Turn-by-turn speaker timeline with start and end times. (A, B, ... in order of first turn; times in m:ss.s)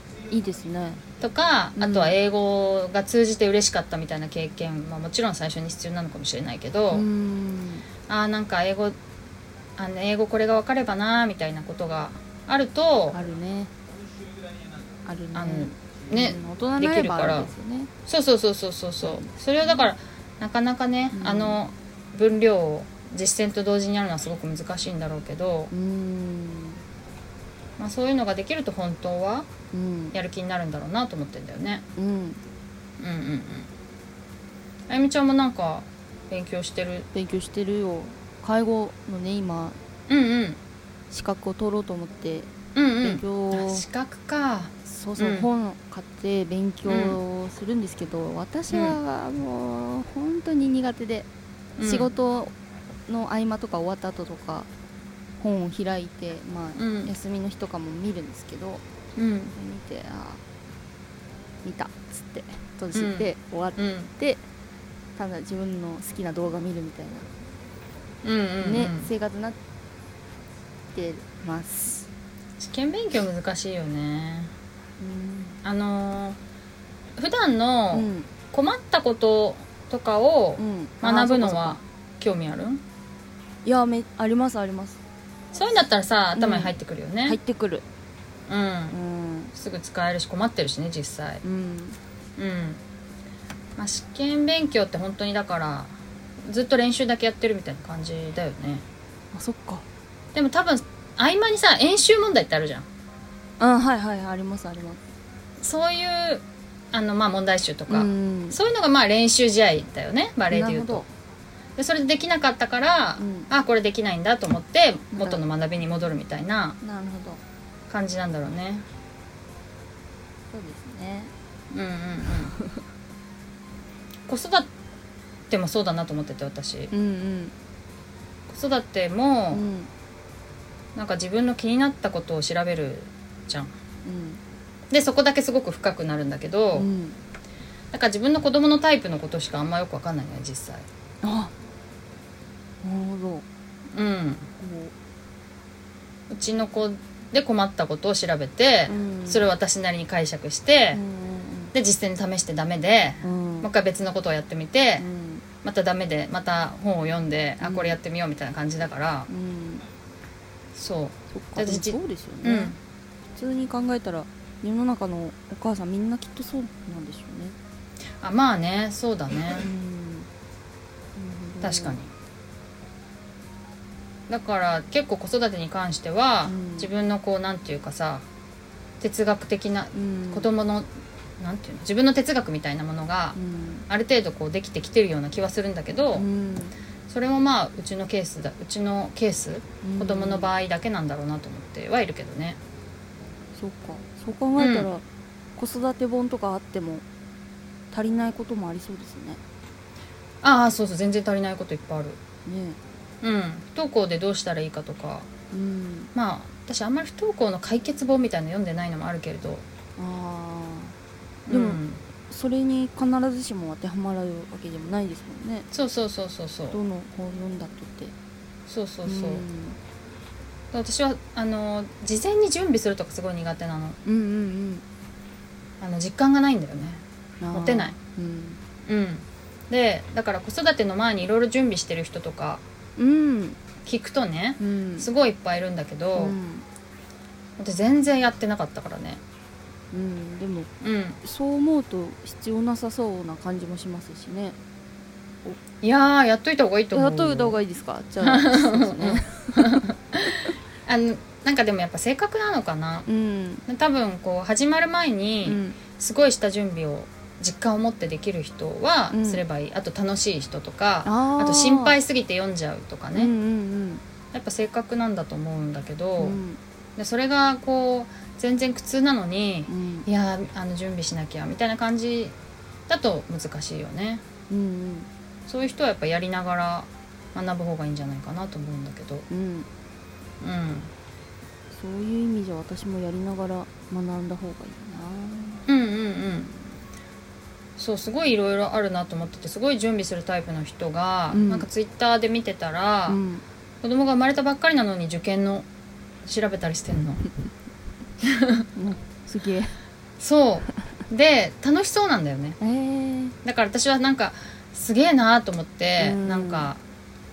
0:00.3-0:01.0 A
0:01.2-0:07.1 B
0:01.8-0:02.2 A
0:06.9-0:07.9 A
0:08.1-0:09.0 B
0:09.8-0:13.2 B
0:13.1-0:13.7 A
0:15.0-0:17.9 A
0:15.3-0:17.5 B
0:18.1-0:25.7 B
0:19.0-0:19.8 A
0:21.1-0:21.6 A
0:25.7-0:26.8 A
0:27.8-0:29.5 B
0:29.7-0:30.2 A
0:30.1-0:31.8 B
0:32.0-0:32.4 A
0:33.0-0:33.7 B
0:34.9-0:37.1 B
0:37.1-0:39.8 A
0:40.1-0:40.6 B
0:41.1-0:42.5 A
0:42.8-0:45.5 B
0:43.0-0:43.8 A
0:44.8-0:51.3 A
0:46.9-0:47.2 B
0:48.7-0:49.0 B
0:51.8-0:52.1 B
0:51.8-0:52.5 A
0:53.1-0:54.7 A
0:55.4-0:58.8 A
0:56.8-0:57.1 B
0:59.2-0:59.6 B
0:59.5-1:00.4 A
1:01.6-1:04.4 A
1:02.9-1:04.1 B
1:05.2-1:07.3 A
1:08.2-1:09.1 B
1:08.6-1:09.6 A
1:10.9-1:12.1 A
1:12.6-1:14.5 B
1:15.0-1:15.6 A
1:15.6-1:16.4 B
1:17.2-1:22.8 B
1:17.9-1:18.3 A
1:20.6-1:21.8 A
1:23.6-1:25.0 A
1:25.5-1:27.4 B
1:26.4-1:26.8 A
1:27.3-1:27.8 A
1:28.5-1:29.0 B
1:28.9-1:29.5 A
1:29.6-1:31.4 B
1:31.4-1:32.0 A
1:32.4-1:32.8 B
1:33.8-1:38.8 B
1:39.3-1:39.8 A
1:40.3-1:42.9 B
1:43.6-1:45.0 A
1:45.6-1:51.0 B
1:47.9-1:48.6 A
1:50.5-1:51.1 A
1:51.8-1:56.8 B
1:53.2-1:53.5 A
1:55.1-1:55.4 A
1:56.8-1:57.4 A
1:57.9-1:58.9 B
2:00.5-2:01.3 A
2:01.7-2:02.5 B
2:04.3-2:04.7 B
2:05.5-2:06.9 B
2:06.9-2:07.5 A
2:08.5-2:09.6 B
2:09.5-2:09.9 A
2:11.0-2:13.7 B
2:14.0-2:14.4 A
2:14.9-2:16.9 B
2:16.7-2:17.2 A
2:17.9-2:20.9 B
2:21.2-2:21.5 A
2:22.8-2:23.4 A
2:23.9-2:24.5 B
2:24.6-2:24.9 A
2:26.3-2:31.0 B
2:28.9-2:29.5 A
2:30.9-2:31.7 A
2:31.7-2:35.0 B
2:33.2-2:33.7 A
2:35.0-2:35.4 A
2:35.6-2:39.3 B
2:37.6-2:38.0 A
2:39.3-2:39.9 A
2:40.8-2:42.8 B
2:41.3-2:42.8 A
2:43.4-2:47.6 A
2:48.2-2:49.7 B
2:49.5-2:50.3 A
2:51.2-2:52.0 A
2:51.6-2:52.1 B
2:54.3-2:58.2 B
2:56.5-2:56.9 A
2:59.0-3:00.9 B
2:59.9-3:00.5 A
3:01.4-3:03.4 B
3:03.4-3:03.9 A
3:03.9-3:06.3 B
3:06.2-3:06.8 A
3:07.1-3:12.6 B
3:09.8-3:10.5 A
3:13.6-3:15.0 A
3:14.6-3:14.9 B
3:15.6-3:17.0 A
3:17.9-3:19.4 A
3:20.4-3:22.2 B
3:22.4-3:22.8 A
3:23.2-3:25.3 B
3:25.5-3:26.1 A
3:26.1-3:29.6 B
3:30.0-3:31.0 A
3:31.5-3:32.0 B
3:31.5-3:35.7 A
3:35.7-3:36.8 B
3:36.7-3:38.1 A
3:38.7-3:39.5 B
3:39.1-3:39.8 A
3:40.7-3:44.0 B
3:44.0-3:44.8 A
3:45.8-3:48.0 B
3:47.4-3:48.6 A
3:48.9-3:52.6 B
3:53.0-3:53.6 A
3:53.8-3:56.4 B
3:54.6-3:55.1 A
3:56.2-3:56.6 A
3:57.6-3:59.2 B
3:59.9-4:00.7 A
4:00.8-4:01.2 B
4:01.2-4:04.6 A
4:05.8-4:07.6 B
4:06.9-4:09.8 A
4:08.2-4:13.1 B
4:13.1-4:13.6 A
4:13.7-4:23.3 B
4:15.4-4:15.8 A
4:19.1-4:19.4 A
4:21.0-4:22.0 A
4:23.2-4:24.0 A
4:24.3-4:26.4 B
4:26.2-4:26.6 A
4:27.0-4:32.4 B
4:29.7-4:30.1 A
4:32.9-4:34.2 B
4:34.5-4:35.1 A
4:35.5-4:39.3 B
4:39.3-4:39.7 A
4:40.4-4:40.9 B
4:41.7-4:45.6 A
4:45.7-4:46.5 B
4:47.8-4:53.2 B
4:51.3-4:51.7 A
4:53.1-4:53.4 A
4:53.8-4:55.7 B
4:56.2-4:57.2 B
4:58.2-4:58.6 B
4:58.8-4:59.7 A
5:00.2-5:02.6 B
5:02.6-5:03.4 A
5:03.4-5:06.8 B
5:06.0-5:06.7 A